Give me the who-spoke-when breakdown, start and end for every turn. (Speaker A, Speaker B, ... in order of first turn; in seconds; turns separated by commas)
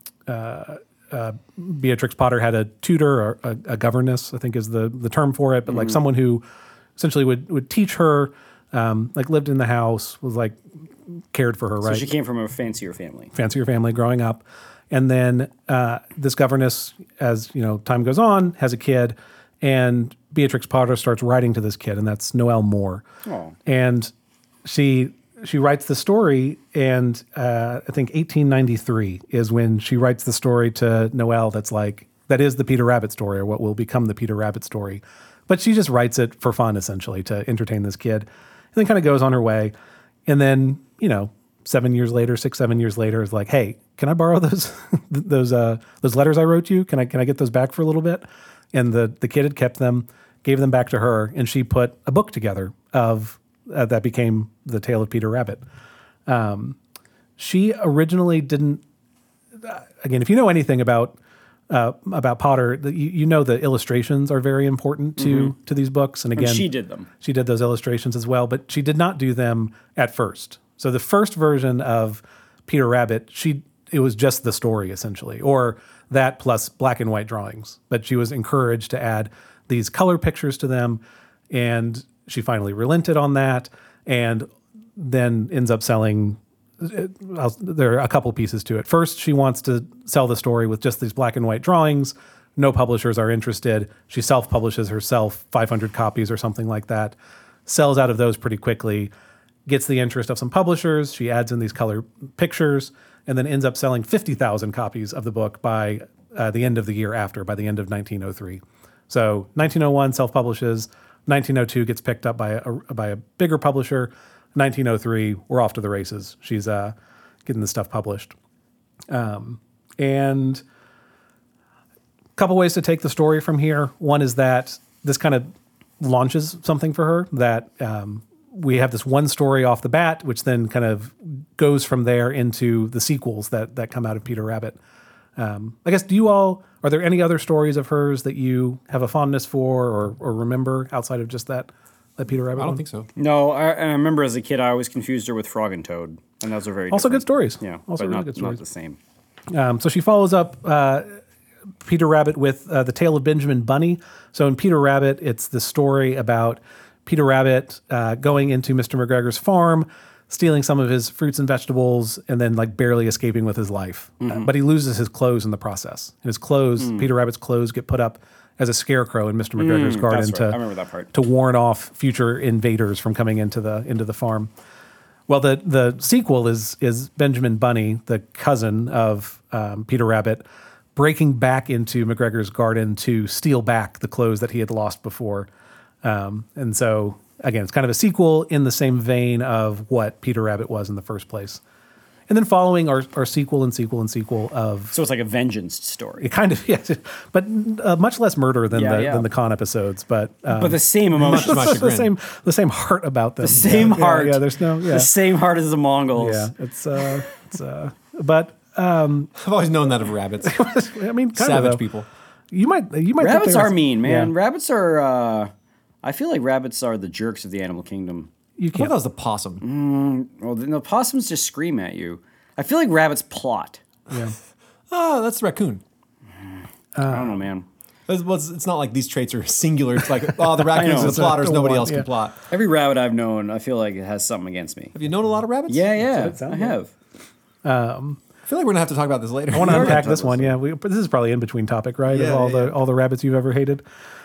Speaker A: 0.3-6.4, Speaker B: 5.7-6.0, Speaker A: 7.0-10.6, Speaker A: 11.1-12.1, Speaker B: 11.8-13.3, Speaker A: 13.3-23.1, Speaker B: 23.2-23.6, Speaker A: 23.7-24.1, Speaker A: 24.6-39.7, Speaker A: 40.3-55.6, Speaker A: 56.3-56.8, Speaker A: 57.4-58.8, Speaker A: 59.6-61.2, Speaker A: 61.7-66.7, Speaker B: 65.2-65.5, Speaker B: 66.4-67.1, Speaker A: 67.2-81.0, Speaker A: 81.5-99.1, Speaker A: 99.7-118.3, Speaker A: 119.1-120.6, Speaker A: 122.4-134.8, Speaker A: 135.4-142.8, Speaker C: 142.6-143.1, Speaker B: 143.2-149.0, Speaker A: 146.9-148.6, Speaker A: 149.5-151.2, Speaker A: 151.8-170.6, Speaker B: 164.2-164.5, Speaker B: 166.8-167.1, Speaker B: 169.6-171.1, Speaker A: 171.1-174.5, Speaker A: 175.3-180.4, Speaker A: 180.9-185.5, Speaker A: 186.0-191.6, Speaker A: 192.3-194.9, Speaker B: 194.9-196.3, Speaker A: 196.2-205.1, Speaker B: 198.7-199.3, Speaker B: 200.5-201.8, Speaker C: 201.2-202.1, Speaker B: 203.4-206.5, Speaker A: 206.2-209.3, Speaker C: 209.4-210.6, Speaker A: 210.4-211.8, Speaker C: 211.3-212.1, Speaker A: 212.5-214.3, Speaker B: 213.2-215.5, Speaker B: 216.0-218.3, Speaker A: 218.6-218.9, Speaker C: 218.7-219.6, Speaker B: 219.6-223.8, Speaker C: 224.9-225.8, Speaker A: 227.0-227.4, Speaker B: 227.0-227.7, Speaker C: 228.1-232.4, Speaker B: 230.7-231.4, Speaker A: 230.8-232.1, Speaker B: 232.5-234.9, Speaker C: 234.9-235.9, Speaker B: 235.7-236.9, Speaker A: 236.1-236.8, Speaker A: 237.6-238.2, Speaker C: 238.5-240.1, Speaker A: 239.5-243.8, Speaker B: 239.6-240.5, Speaker C: 242.1-242.8